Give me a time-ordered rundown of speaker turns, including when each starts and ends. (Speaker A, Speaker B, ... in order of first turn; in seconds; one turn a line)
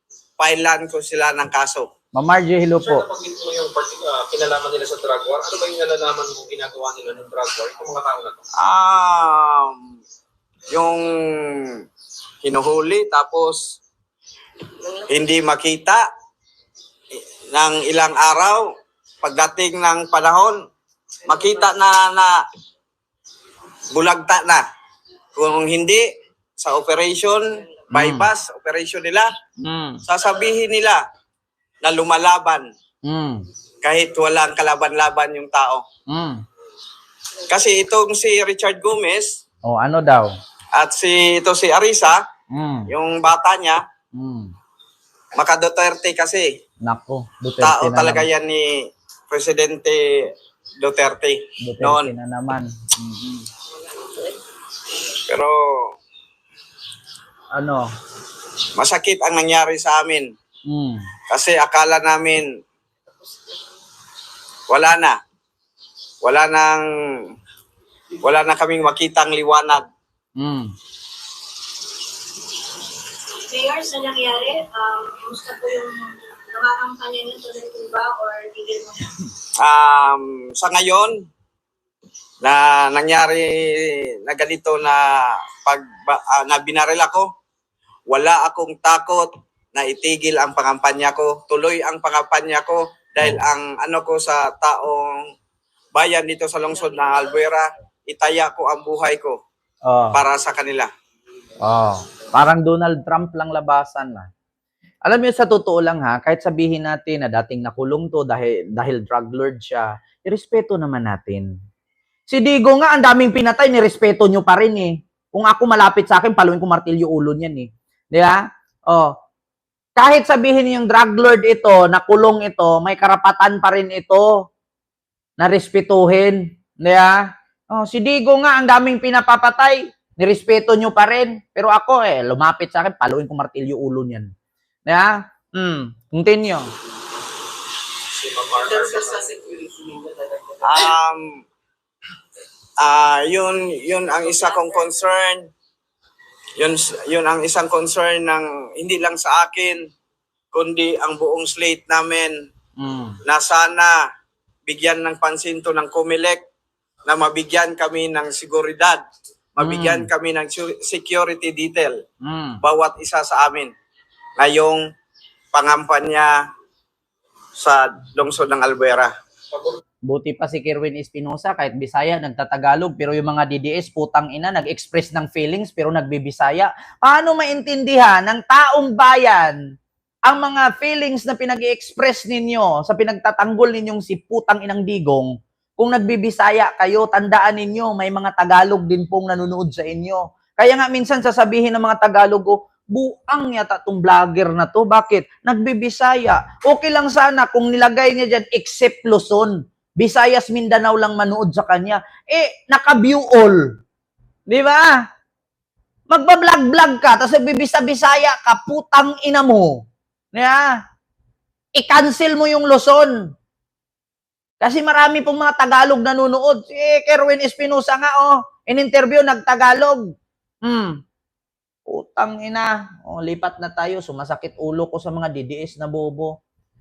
Speaker A: 0.4-1.9
Speaker B: 2.1-3.0
Speaker C: 2.9-8.4
Speaker A: 8.6-9.8
Speaker A: 10.7-11.9
Speaker A: 12.4-13.8
Speaker A: 15.0-16.0
Speaker A: 17.5-18.6
Speaker A: 19.2-20.6
Speaker A: 21.2-22.4
Speaker A: 23.9-24.6
Speaker A: 25.3-26.1
Speaker A: 26.6-29.3
Speaker B: 27.9-28.3
Speaker B: 29.6-30.0
Speaker A: 30.1-31.0
Speaker A: 31.8-32.7
Speaker B: 33.0-33.4
Speaker A: 33.8-35.9
Speaker B: 36.1-36.4
Speaker A: 37.5-39.4
Speaker B: 39.6-40.3
Speaker A: 40.7-42.2
Speaker B: 42.5-42.9
Speaker A: 42.9-43.8
Speaker B: 44.1-44.5
Speaker A: 45.4-46.5
Speaker B: 46.9-48.2
Speaker A: 47.6-52.1
Speaker B: 51.6-53.5
Speaker A: 55.3-56.0
Speaker B: 57.5-57.9
Speaker A: 58.8-60.3
Speaker B: 60.7-61.0
Speaker A: 61.3-62.5
Speaker A: 64.7-65.2
Speaker A: 66.2-67.3
Speaker A: 68.2-69.9
Speaker B: 70.4-70.7
Speaker D: 73.5-74.6
Speaker D: 75.1-76.0
Speaker D: 76.5-77.6
Speaker A: 79.6-81.1
Speaker A: 82.4-87.3
Speaker A: 88.1-95.2
Speaker A: 95.9-99.4
Speaker B: 99.8-100.2
Speaker A: 100.1-100.9
Speaker B: 101.6-104.3
Speaker B: 105.0-111.5
Speaker B: 112.3-119.1
Speaker B: 120.0-124.3
Speaker B: 125.4-127.2
Speaker B: 127.7-134.3
Speaker B: 134.9-136.7
Speaker C: 138.2-139.7
Speaker A: 140.6-141.4
Speaker A: 142.8-145.5
Speaker A: 146.6-149.8
Speaker A: 150.5-152.3
Speaker B: 152.8-153.2
Speaker A: 153.2-153.9
Speaker A: 154.7-156.4
Speaker A: 157.1-159.0
Speaker A: 159.6-162.0
Speaker B: 159.6-160.1
Speaker B: 162.2-162.6
Speaker A: 162.6-163.7
Speaker A: 164.4-164.8
Speaker A: 165.5-166.3
Speaker A: 167.6-169.1
Speaker B: 170.1-179.6
Speaker B: 180.3-203.6
Speaker B: 204.5-205.0
Speaker B: 206.1-209.8
Speaker B: 210.3-210.7
Speaker B: 211.8-213.2
Speaker B: 214.6-220.0
Speaker B: 220.6-221.0
Speaker B: 221.9-226.3